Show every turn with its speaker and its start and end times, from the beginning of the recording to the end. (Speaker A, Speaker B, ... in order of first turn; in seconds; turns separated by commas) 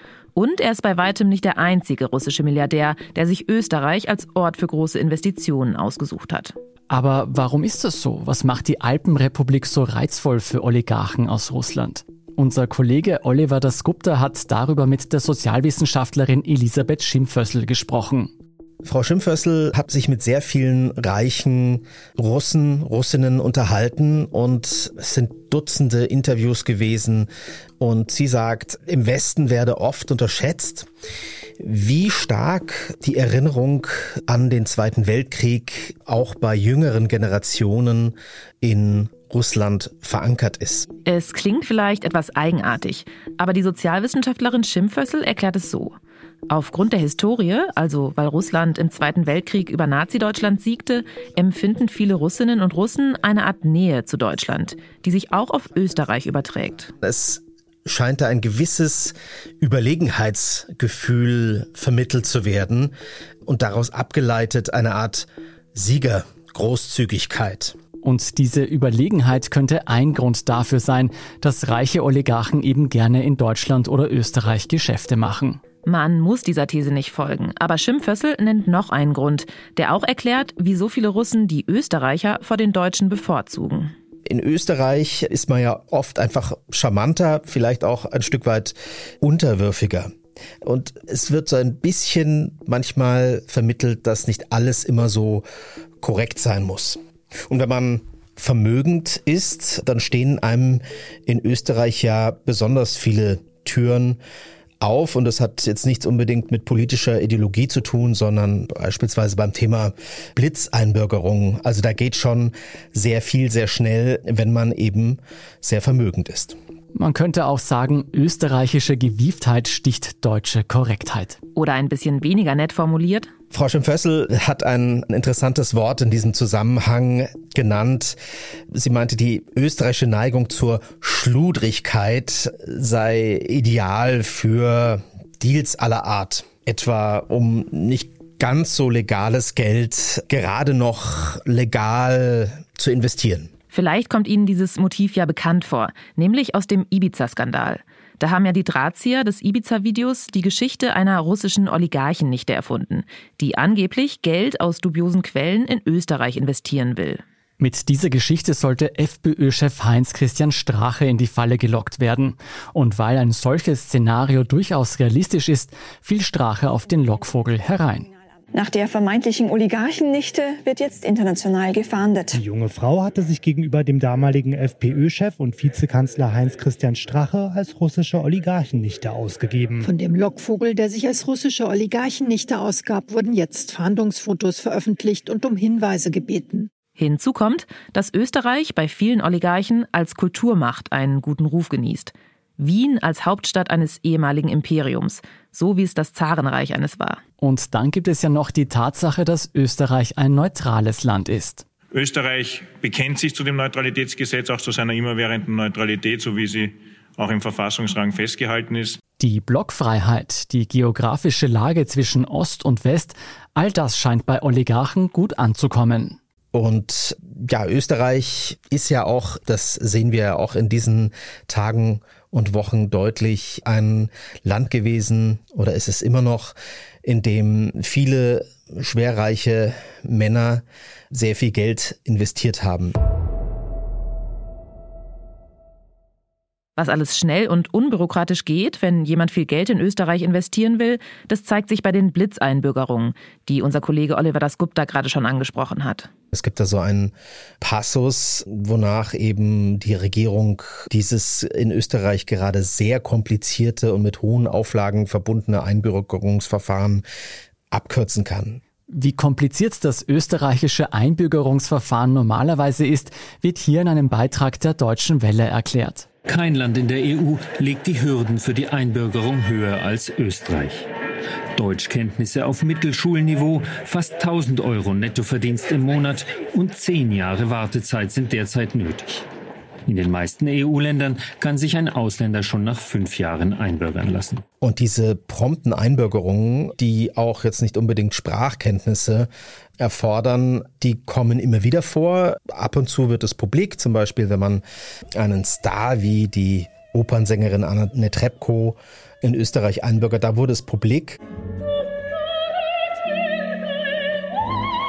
Speaker A: 0.3-6.5, Speaker B: 6.9-18.3, Speaker C: 18.8-30.9, Speaker C: 31.6-40.9, Speaker A: 41.0-45.9, Speaker A: 46.5-56.9, Speaker C: 57.0-62.9, Speaker C: 63.5-67.8, Speaker B: 68.0-75.6, Speaker A: 75.8-83.9, Speaker C: 84.2-90.1, Speaker C: 90.6-95.4, Speaker C: 96.0-104.2, Speaker C: 104.8-116.6, Speaker B: 116.9-121.4, Speaker A: 121.5-123.3, Speaker C: 123.5-128.2, Speaker C: 128.7-143.5, Speaker A: 143.7-157.2, Speaker B: 157.6-168.1, Speaker D: 168.5-172.4, Speaker E: 172.3-179.9, Speaker F: 179.8-186.7, Speaker A: 187.0-197.2, Speaker B: 197.4-201.6, Speaker G: 201.9-209.0, Speaker B: 209.2-216.2, Speaker C: 216.5-226.5, Speaker C: 227.0-232.9, Speaker A: 236.8-246.1, Speaker C: 246.3-257.0, Speaker C: 257.7-258.6, Speaker B: 258.9-266.1, Speaker H: 266.2-270.9, Speaker H: 271.6-279.2, Speaker H: 279.9-284.4, Speaker C: 284.6-294.6, Speaker C: 295.1-301.2